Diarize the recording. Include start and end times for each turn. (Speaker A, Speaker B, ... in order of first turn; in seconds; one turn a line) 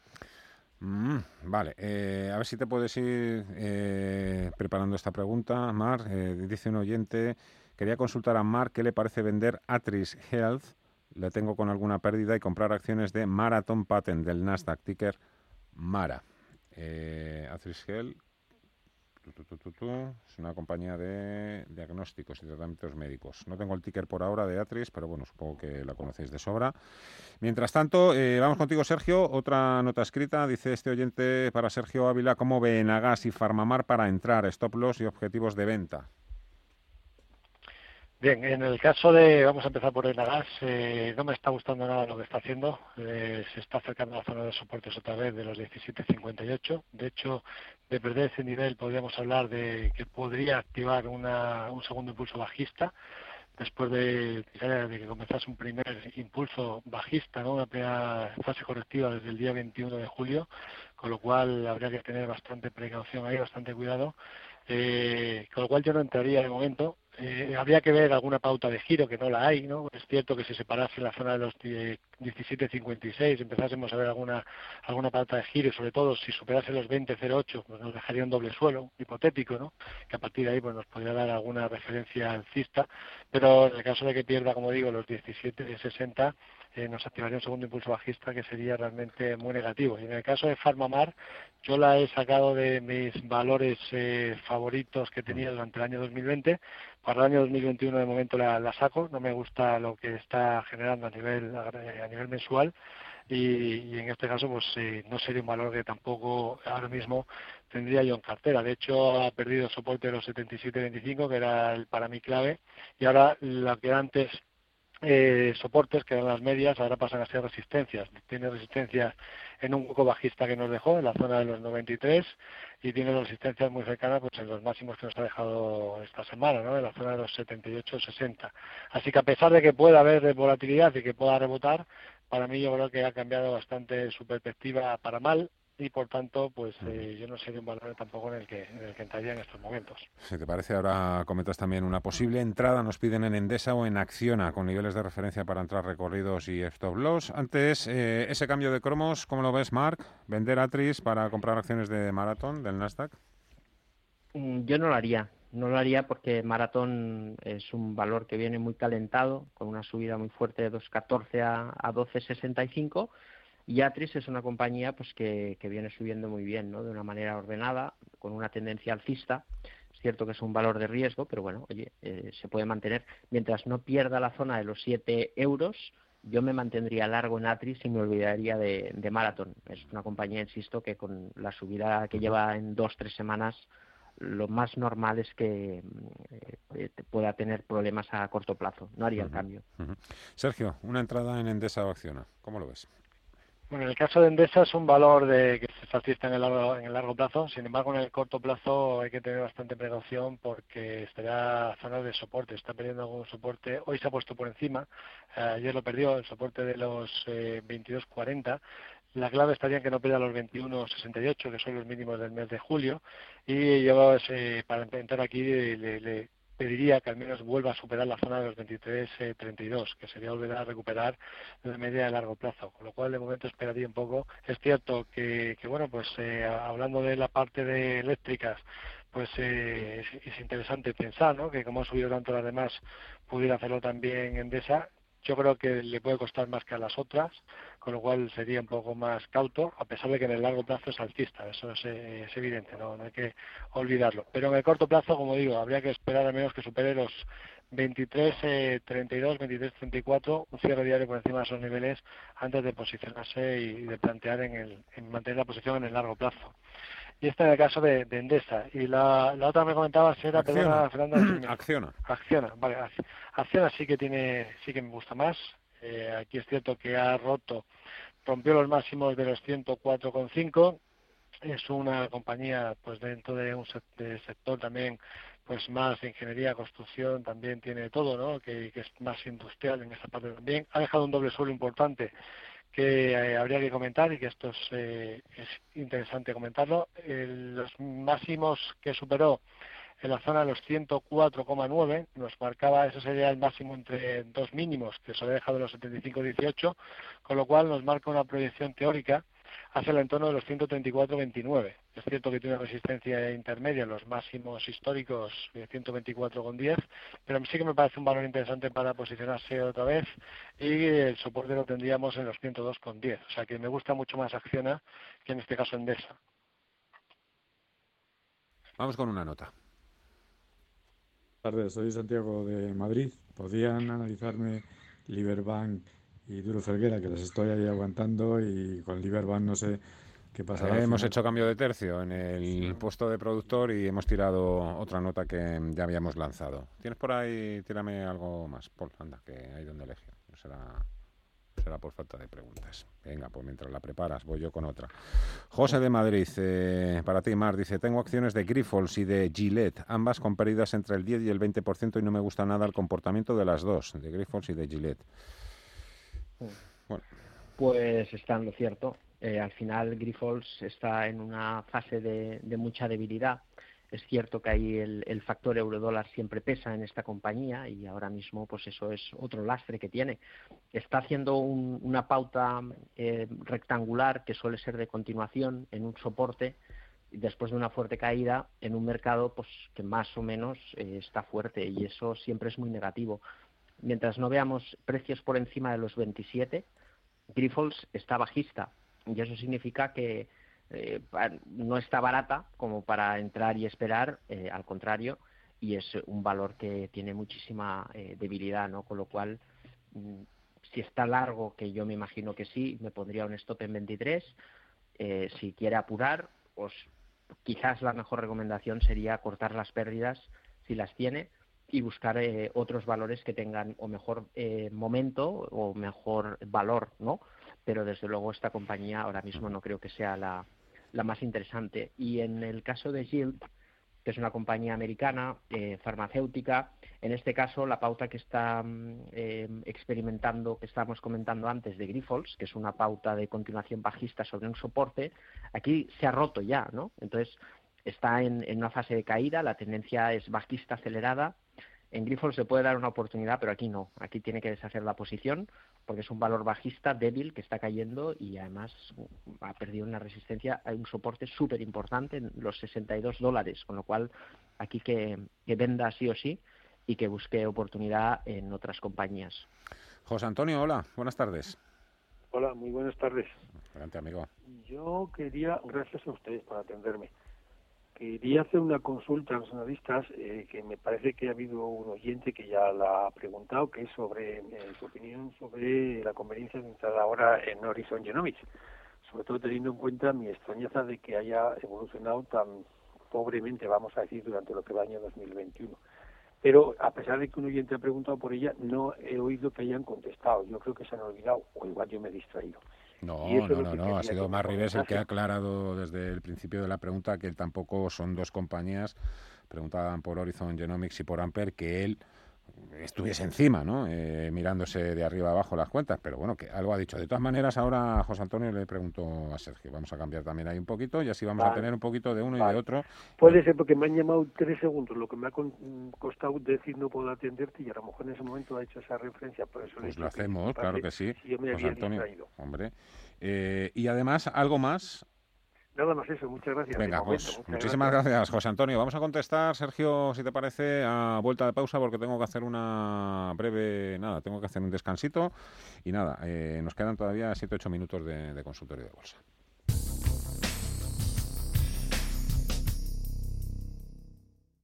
Speaker A: 0.8-15.2
Speaker A: 15.8-18.2
Speaker A: 19.3-26.8
Speaker A: 27.4-36.1
Speaker B: 38.2-52.9
Speaker B: 53.6-64.2
Speaker B: 64.7-102.7
Speaker B: 103.3-114.4
Speaker B: 115.0-140.1
Speaker A: 140.2-153.2
Speaker C: 154.3-163.1
Speaker C: 163.7-183.7
Speaker C: 184.2-189.6
Speaker A: 189.2-192.9
Speaker B: 193.7-208.6
Speaker B: 209.2-256.5
Speaker B: 257.2-267.6
Speaker A: 260.3-261.9
Speaker B: 268.2-270.8
Speaker B: 271.4-282.1
Speaker B: 282.7-289.4
Speaker B: 290.0-316.2
Speaker A: 318.8-319.5
Speaker D: 321.4-329.8
Speaker D: 330.3-331.1
Speaker A: 330.6-340.9
Speaker A: 341.6-344.9
Speaker A: 345.5-355.1
Speaker C: 357.6-370.2
Speaker C: 370.7-376.6
Speaker C: 377.1-383.2
Speaker C: 383.8-386.7
Speaker C: 387.3-399.4
Speaker C: 399.9-404.4
Speaker C: 405.0-406.9
Speaker C: 407.4-423.4
Speaker C: 424.0-441.4
Speaker C: 441.9-459.5
Speaker A: 460.1-461.6
Speaker E: 462.3-463.4
Speaker A: 463.7-464.3
Speaker E: 464.5-467.1
Speaker E: 468.0-478.4
Speaker E: 479.1-485.8
Speaker E: 486.4-492.6
Speaker A: 493.0-499.0
Speaker E: 493.2-495.0
Speaker A: 499.5-502.0
Speaker A: 502.6-513.4
Speaker E: 511.4-511.7
Speaker E: 512.3-512.6
Speaker E: 513.2-522.3
Speaker A: 519.8-525.0
Speaker E: 525.8-528.0
Speaker A: 526.8-535.3
Speaker A: 535.9-539.2